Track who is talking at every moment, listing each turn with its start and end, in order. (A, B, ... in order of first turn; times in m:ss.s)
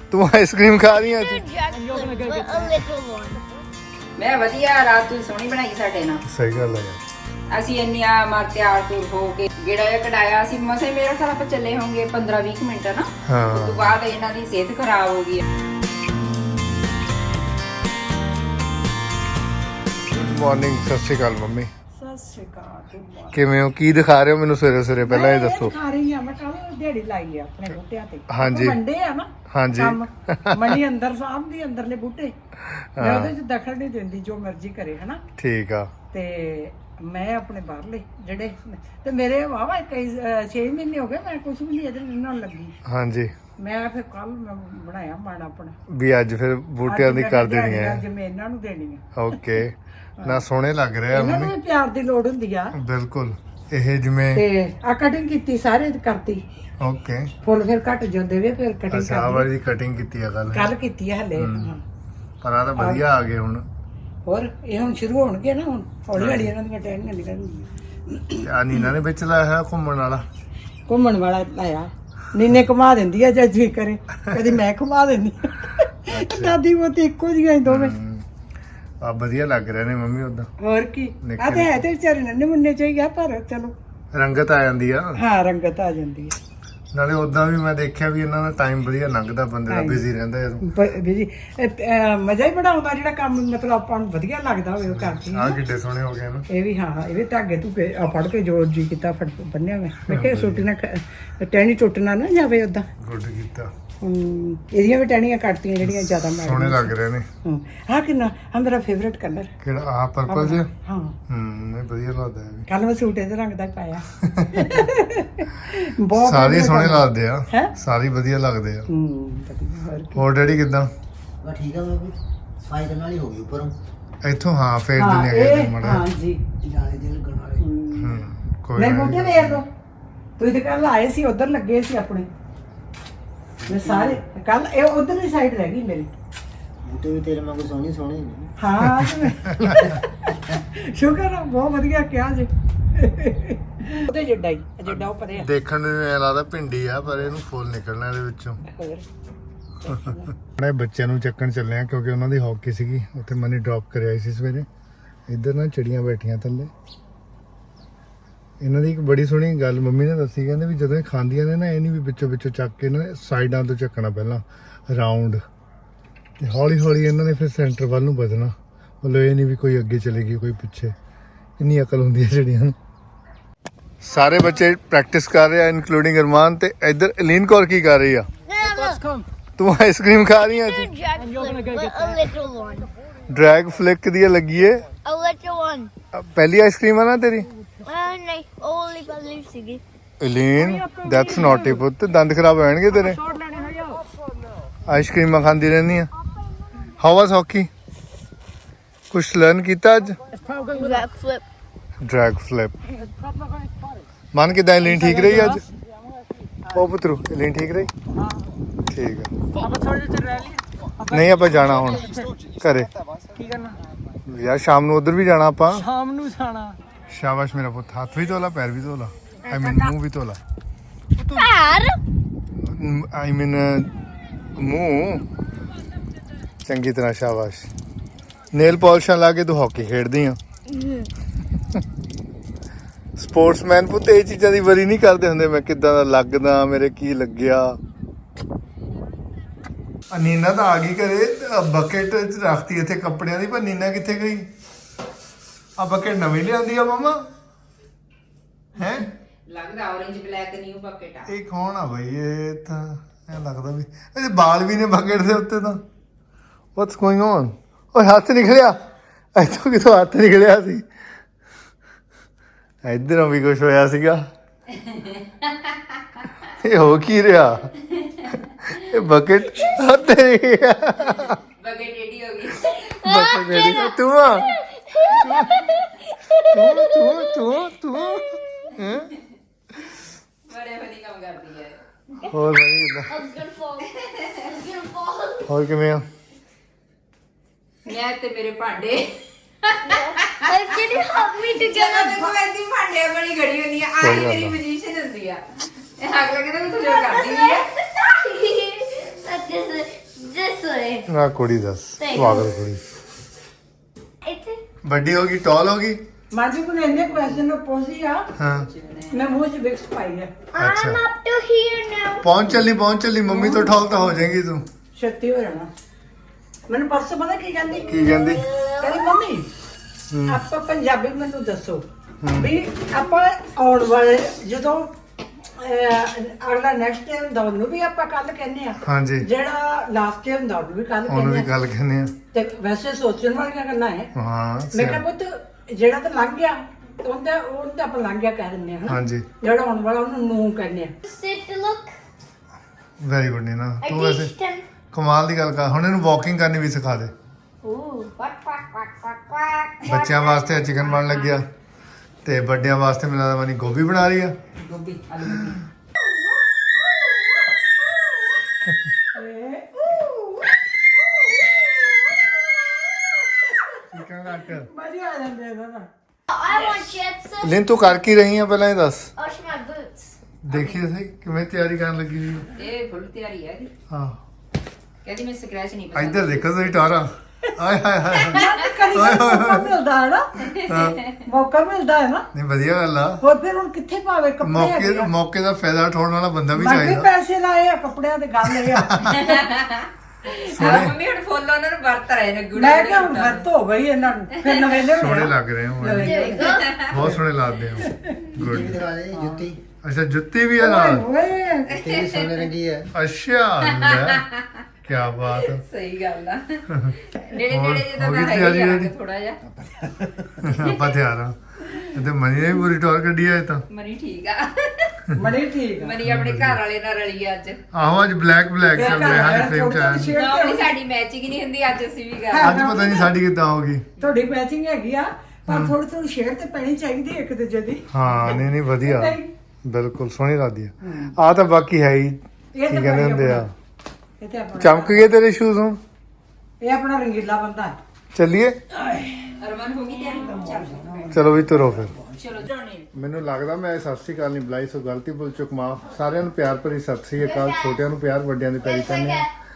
0:00.1-0:01.4 A
0:01.0-0:03.4 B
0:02.1-0:02.5 C
0:04.2-0:06.2 D
0:06.3-0:07.0 A
0:07.5-0:15.4 D
0:13.3-0:14.0 A
0:20.1-0:21.7 A
0:22.0-0:23.4 C
0:23.3-0:25.7 A
0:25.0-0:32.3 C
0:28.3-0:28.8 A
0:29.5-0:30.7 A
0:32.6-0:33.3 A
0:33.0-0:35.2 C
0:35.4-0:35.9 A
0:36.1-0:42.7 C
0:42.8-0:43.3 A
0:43.6-0:45.7 C
0:45.9-0:48.0 A
0:46.8-0:49.0 C
0:49.1-0:51.5 A
0:51.1-0:52.7 C
0:52.8-0:54.4 A
0:54.4-0:56.4 C
0:56.8-0:57.3 A
0:57.4-0:59.5 C
0:58.9-1:00.7 A
1:00.5-1:01.8 C
1:01.4-1:01.7 A
1:02.4-1:03.6 A
1:02.8-1:03.0 C
1:04.2-1:08.9 C
1:06.1-1:06.5 A
1:08.4-1:10.2 A
1:10.9-1:17.9 C
1:16.1-1:16.6 A
1:17.6-1:18.2 A
1:19.0-1:20.5 A
1:20.6-1:23.7 C
1:21.2-1:21.8 A
1:24.1-1:25.2 A
1:25.2-1:26.3 C
1:26.9-1:30.7 A
1:29.7-1:30.0 C
1:30.6-1:35.6 C
1:34.8-1:36.5 A
1:36.5-1:42.8 C
1:40.0-1:40.6 A
1:43.0-1:43.7 A
1:44.0-1:49.5 C
1:45.8-1:47.2 A
1:49.6-1:50.7 A
1:50.3-1:51.2 C
1:51.3-1:52.7 A
1:52.7-1:57.7 C
1:54.2-1:54.8 A
1:56.1-1:58.9 A
1:58.9-2:00.2 C
2:00.1-2:00.9 A
2:01.4-2:03.7 E
2:04.2-2:06.0 A
2:05.0-2:06.4 C
2:06.6-2:07.6 E
2:07.6-2:08.2 C
2:08.0-2:09.6 A
2:08.8-2:09.6 C
2:10.4-2:12.3 C
2:13.6-2:14.2 E
2:13.6-2:16.1 C
2:16.8-2:18.5 E
2:18.6-2:25.5 C
2:18.8-2:19.8 A
2:24.8-2:28.6 A
2:28.6-2:29.0 C
2:29.8-2:30.3 C
2:29.9-2:34.7 A
2:35.3-2:36.7 A
2:38.6-2:45.4 A
2:46.4-2:50.9 A
2:51.6-2:52.8 A
2:54.0-2:58.3 A
2:58.4-2:59.0 B
2:58.6-2:59.2 C
2:59.6-3:00.9 A
3:00.4-3:02.9 B
3:01.2-3:02.2 C
3:03.3-3:04.9 A
3:05.0-3:05.9 B
3:06.1-3:07.5 A
3:07.8-3:09.8 B
3:10.2-3:13.2 A
3:10.6-3:11.8 C
3:13.0-3:14.0 C
3:14.9-3:16.1 A
3:16.9-3:17.7 A
3:19.1-3:20.2 A
3:20.7-3:21.4 B
3:22.0-3:22.8 A
3:22.9-3:24.0 C
3:24.3-3:25.6 A
3:24.8-3:25.6 C
3:26.7-3:27.9 A
3:28.9-3:29.3 A
3:29.6-3:32.3 C
3:31.1-3:32.9 A
3:33.4-3:33.7 C
3:34.2-3:35.8 A
3:35.7-3:36.7 C
3:37.1-3:40.4 A
3:39.5-3:39.9 C
3:41.3-3:42.0 B
3:42.5-3:43.9 A
3:44.5-3:45.2 A
3:46.6-3:47.7 A
3:48.5-3:50.4 A
3:50.8-3:51.0 B
3:53.2-3:57.8 A
4:00.1-4:04.5 A
4:05.8-4:07.2 A
4:08.8-4:09.1 A
4:09.5-4:11.3 D
4:11.3-4:15.8 A
4:16.8-4:18.8 A
4:19.3-4:20.8 A
4:22.8-4:24.2 A
4:24.8-4:26.3 D
4:26.6-4:27.7 A
4:27.9-4:28.4 D
4:28.7-4:31.4 A
4:31.3-4:33.1 D
4:33.0-4:35.6 A
4:33.1-4:38.5 B
4:35.2-4:35.8 D
4:36.4-4:39.1 A
4:38.8-4:39.2 D
4:40.5-4:42.3 D
4:42.3-4:43.3 A
4:43.0-4:45.5 B
4:44.0-4:44.4 D
4:45.5-4:46.0 A
4:47.8-4:50.8 D
4:49.8-4:52.4 B
4:51.5-4:58.9 D
4:54.0-4:54.6 A
4:56.9-4:57.6 B
4:58.5-5:01.0 B
5:01.1-5:02.8 A
5:02.0-5:02.5 B
5:04.2-5:04.6 B
5:04.8-5:06.0 A
5:06.3-5:08.3 C
5:08.4-5:08.7 A
5:08.7-5:09.2 D
5:09.1-5:10.4 C
5:10.5-5:12.3 B
5:10.5-5:11.0 A
5:12.2-5:14.6 A
5:13.3-5:13.9 C
5:14.9-5:15.7 C
5:16.7-5:18.0 C
5:17.8-5:18.4 A
5:18.0-5:19.0 B
5:18.8-5:19.5 C
5:20.1-5:20.4 A
5:20.3-5:21.8 C
5:22.2-5:22.5 A
5:22.4-5:24.9 C
5:25.6-5:31.5 C
5:28.8-5:29.2 A
5:31.1-5:32.1 A
5:32.3-5:34.1 C
5:34.2-5:35.0 A
5:34.7-5:40.9 C
5:38.9-5:39.2 A
5:41.0-5:41.9 B
5:43.0-5:44.3 A
5:43.8-5:44.6 B
5:44.9-5:47.1 A
5:47.6-5:50.5 B
5:49.8-5:51.4 A
5:50.8-5:51.3 D
5:52.2-5:54.4 A
5:54.6-5:55.6 D
5:56.8-5:57.3 B
5:59.1-6:00.2 C
6:01.0-6:03.1 B
6:03.9-6:04.7 A
6:04.6-6:05.9 C
6:06.3-6:07.6 B
6:06.5-6:07.0 D
6:07.4-6:09.1 A
6:09.2-6:10.1 B
6:10.4-6:12.5 A
6:10.5-6:10.8 D
6:12.6-6:13.7 D
6:13.9-6:14.2 A
6:15.0-6:16.8 D
6:15.9-6:18.4 A
6:18.2-6:18.5 D
6:18.3-6:20.3 C
6:18.9-6:19.7 A
6:20.4-6:21.2 D
6:20.6-6:21.0 A
6:21.2-6:22.3 C
6:22.3-6:23.2 A
6:23.2-6:25.1 C
6:24.4-6:27.1 A
6:26.5-6:29.4 C
6:28.5-6:29.2 A
6:29.2-6:33.5 D
6:30.5-6:31.0 A
6:32.5-6:37.1 C
6:34.5-6:34.8 D
6:34.9-6:38.8 A
6:35.9-6:36.8 B
6:36.2-6:37.0 D
6:37.8-6:38.2 C
6:38.3-6:39.6 E
6:39.1-6:39.4 C
6:39.8-6:41.0 A
6:40.6-6:41.8 C
6:41.8-6:42.9 E
6:41.8-6:42.5 D
6:42.9-6:44.2 A
6:43.6-6:44.6 D
6:44.8-6:45.6 A
6:45.3-6:49.4 D
6:46.7-6:46.9 A
6:47.5-6:48.9 A
6:49.6-6:50.2 E
6:50.4-6:53.6 A
6:50.5-6:51.0 D
6:53.7-6:55.0 D
6:55.1-6:56.0 C
6:55.7-6:57.6 D
6:56.0-6:56.6 A
6:57.7-7:00.1 A
6:58.7-7:00.7 C
7:00.1-7:02.6 D
7:02.3-7:03.1 C
7:02.4-7:03.9 A
7:04.0-7:09.3 C
7:05.5-7:05.7 A
7:07.9-7:13.5 A
7:10.8-7:11.2 C
7:12.5-7:13.5 C
7:14.2-7:15.0 C
7:14.6-7:15.8 A
7:16.6-7:17.8 C
7:18.1-7:18.6 A
7:19.4-7:22.9 D
7:21.1-7:21.9 A
7:22.9-7:29.3 A
7:27.2-7:27.8 B
7:28.6-7:29.3 B